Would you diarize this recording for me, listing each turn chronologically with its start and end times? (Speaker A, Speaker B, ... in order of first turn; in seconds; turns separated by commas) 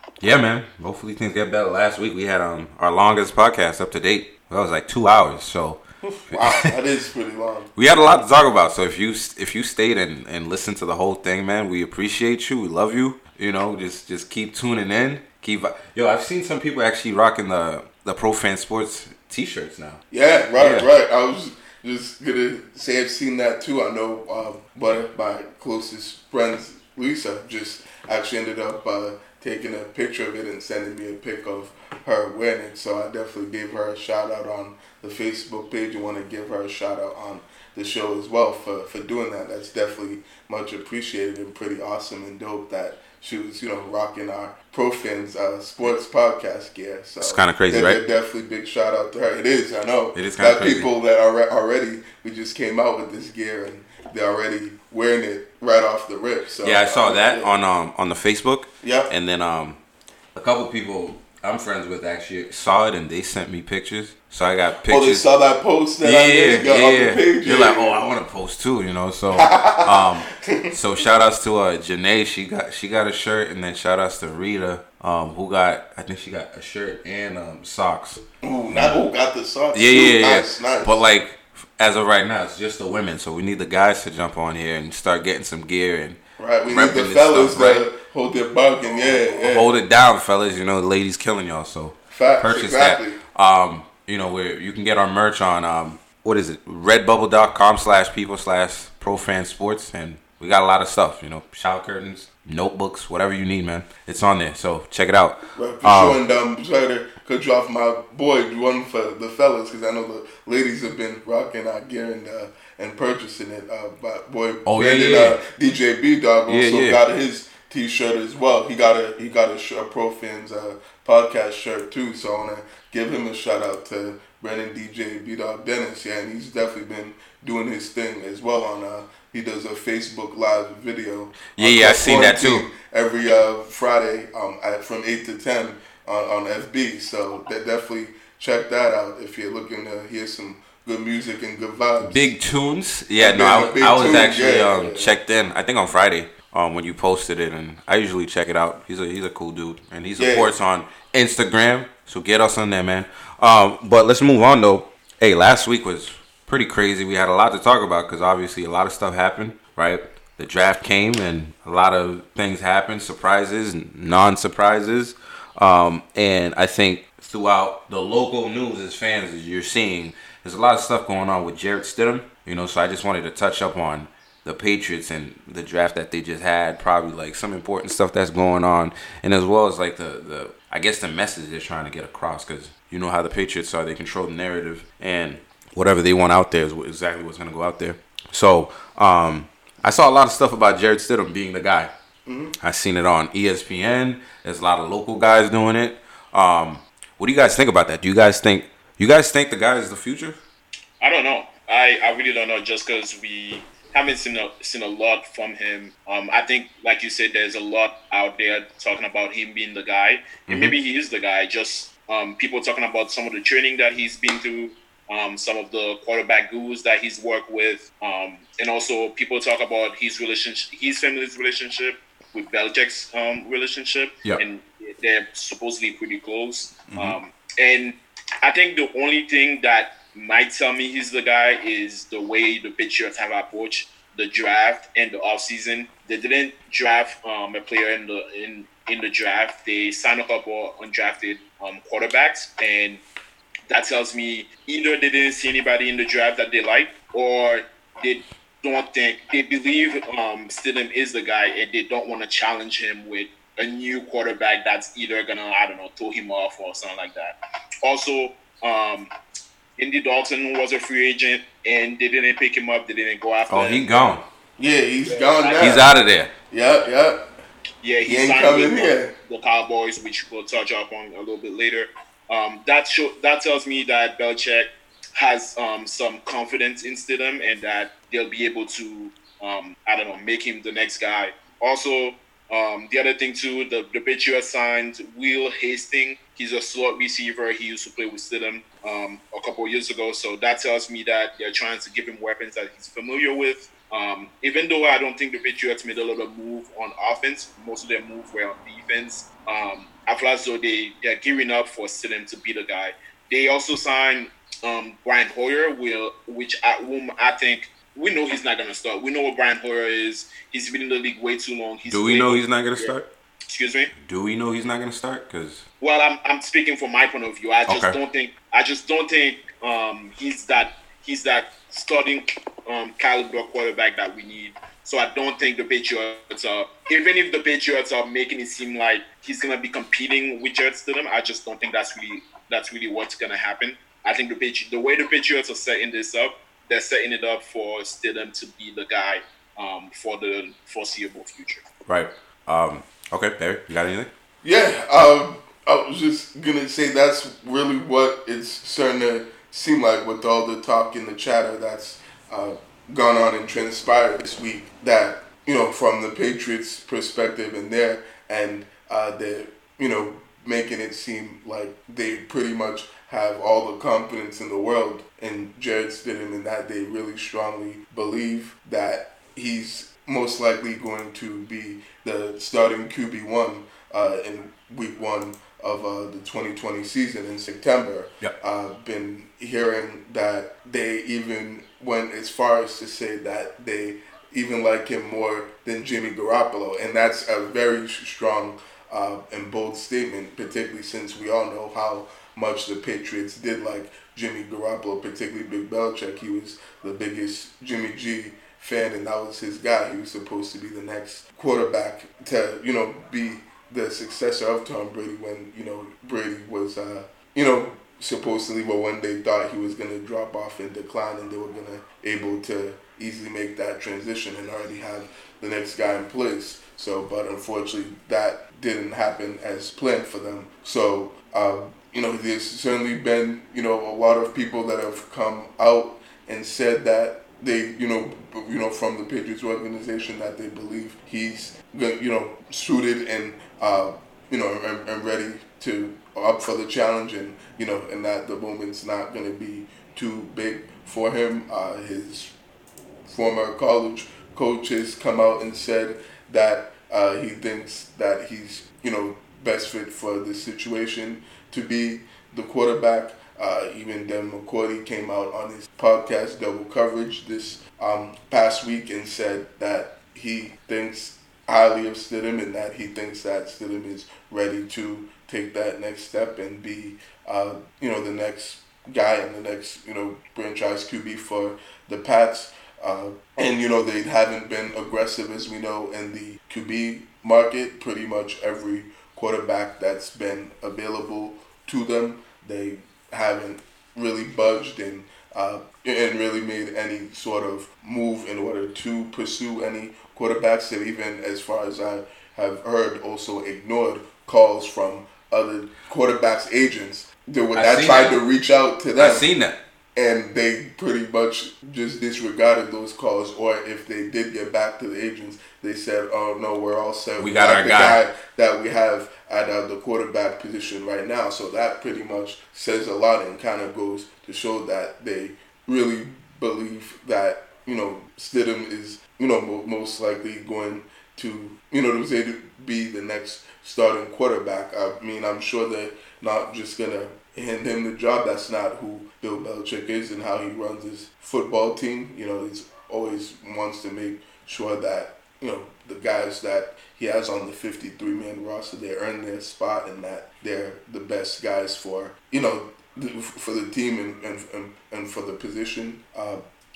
Speaker A: 0.2-6.7, Speaker B: 6.1-7.7, Speaker A: 7.8-20.0, Speaker B: 20.1-57.5, Speaker A: 20.6-20.9, Speaker A: 47.2-48.0, Speaker A: 50.1-50.9, Speaker A: 56.6-59.8, Speaker B: 58.8-59.1, Speaker A: 60.4-65.3, Speaker B: 64.9-68.1, Speaker A: 66.0-79.0, Speaker B: 69.3-70.8, Speaker B: 78.4-81.0, Speaker A: 79.7-86.2, Speaker B: 86.4-89.7, Speaker A: 86.7-87.8, Speaker A: 89.0-106.2, Speaker B: 92.1-93.2, Speaker B: 105.5-142.3, Speaker A: 114.7-115.4, Speaker A: 116.5-117.0, Speaker A: 131.6-132.7, Speaker A: 142.0-191.9, Speaker B: 143.2-145.2, Speaker B: 150.2-150.5, Speaker B: 192.3-192.6, Speaker A: 192.6-200.4, Speaker C: 201.0-243.0, Speaker A: 210.5-210.7, Speaker A: 226.9-227.2, Speaker C: 243.7-259.1, Speaker C: 259.8-263.8, Speaker A: 263.5-264.2, Speaker B: 264.6-265.9, Speaker C: 265.1-265.7, Speaker A: 265.6-266.3, Speaker B: 266.5-267.3, Speaker C: 267.8-312.9, Speaker B: 268.1-269.1, Speaker A: 311.9-313.1, Speaker C: 313.5-313.9, Speaker A: 314.0-315.6, Speaker C: 315.8-341.6, Speaker A: 317.7-318.0, Speaker A: 341.9-344.1, Speaker B: 344.4-442.4, Speaker B: 443.1-499.3, Speaker A: 497.6-498.2, Speaker A: 499.0-499.6, Speaker B: 500.0-546.4, Speaker A: 507.2-508.0